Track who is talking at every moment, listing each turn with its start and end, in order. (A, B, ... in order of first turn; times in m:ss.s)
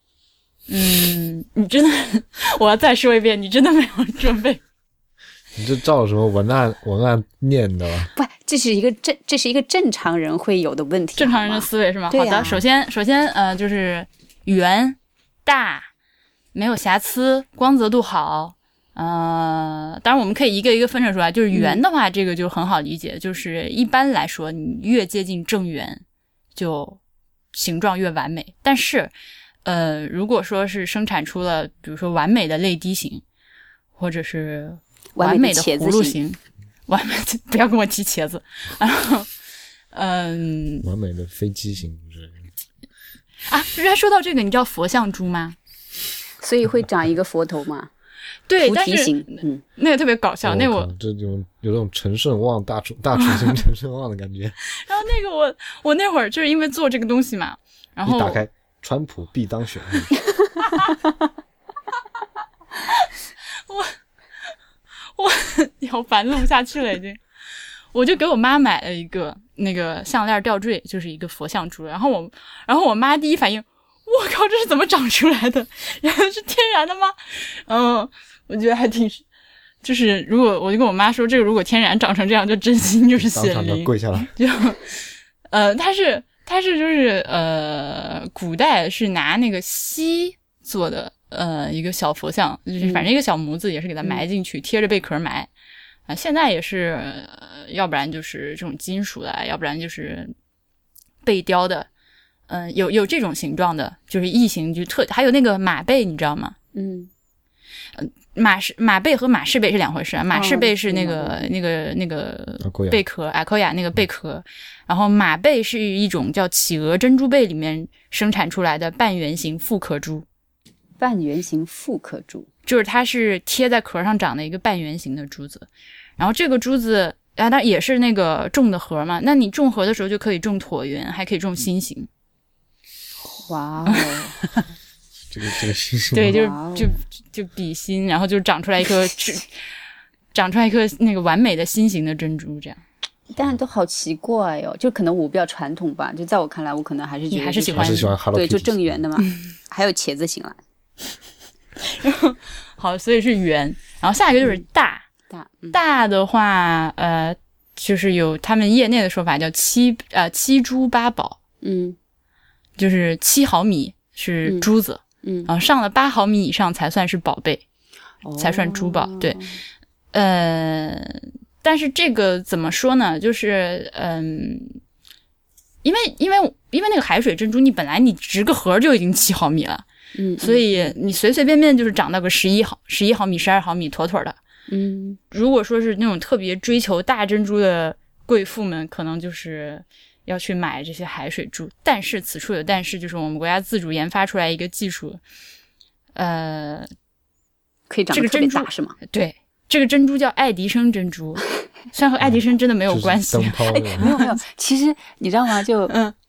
0:00.7-0:04.6 A
0:05.6-0:08.1 B
0:08.2-0:12.6 C
0:11.2-0:15.9 A
0:16.5-0:26.0 A
0:21.5-0:21.8 C
0:26.6-0:27.0 A
0:27.5-0:29.1 A
0:29.6-0:33.2 A
0:34.0-0:39.3 A
0:35.2-0:36.2 C
0:39.9-0:40.9 A
0:40.8-0:42.5 B
0:43.5-0:45.6 A
0:46.4-0:47.9 C
0:48.5-0:50.9 A
0:48.6-0:49.6 C
0:50.4-0:54.6 B
0:53.2-0:53.5 A
0:54.8-0:58.4 A
0:58.0-1:00.2 B
1:00.6-1:00.9 A
1:02.9-1:03.2 A
1:03.7-1:03.9 A
1:05.2-1:07.2 A
1:07.9-1:19.2 A
1:19.8-1:35.5 A
1:23.2-1:24.3 B
1:32.8-1:33.1 C
1:36.1-1:40.3 A
1:41.2-1:41.9 A
1:42.5-1:46.6 A
1:46.7-1:47.1 C
1:48.0-2:00.2 A
1:50.3-1:51.5 C
1:52.6-1:53.0 B
2:01.0-2:02.5 C
2:02.7-2:12.1 A
2:13.4-2:14.4 C
2:15.3-2:16.4 B
2:16.1-2:19.5 A
2:16.3-2:16.9 C
2:20.3-2:22.8 A
2:23.3-2:30.6 C
2:27.3-2:28.1 A
2:27.7-2:29.0 B
2:29.2-2:29.5 A
2:31.8-2:35.0 A
2:35.3-2:35.8 C
2:35.7-2:41.4 A
2:41.6-2:42.0 C
2:42.8-2:47.6 A
2:45.2-2:45.5 C
2:48.2-2:49.6 C
2:48.4-2:49.5 A
2:50.1-2:54.8 A
2:55.8-2:59.8 A
3:00.2-3:01.0 C
3:00.4-3:04.4 A
3:04.7-3:05.2 C
3:05.3-3:15.2 A
3:16.2-3:16.9 A
3:17.9-3:19.0 C
3:18.1-3:24.4 A
3:22.2-3:24.1 B
3:23.7-3:26.0 C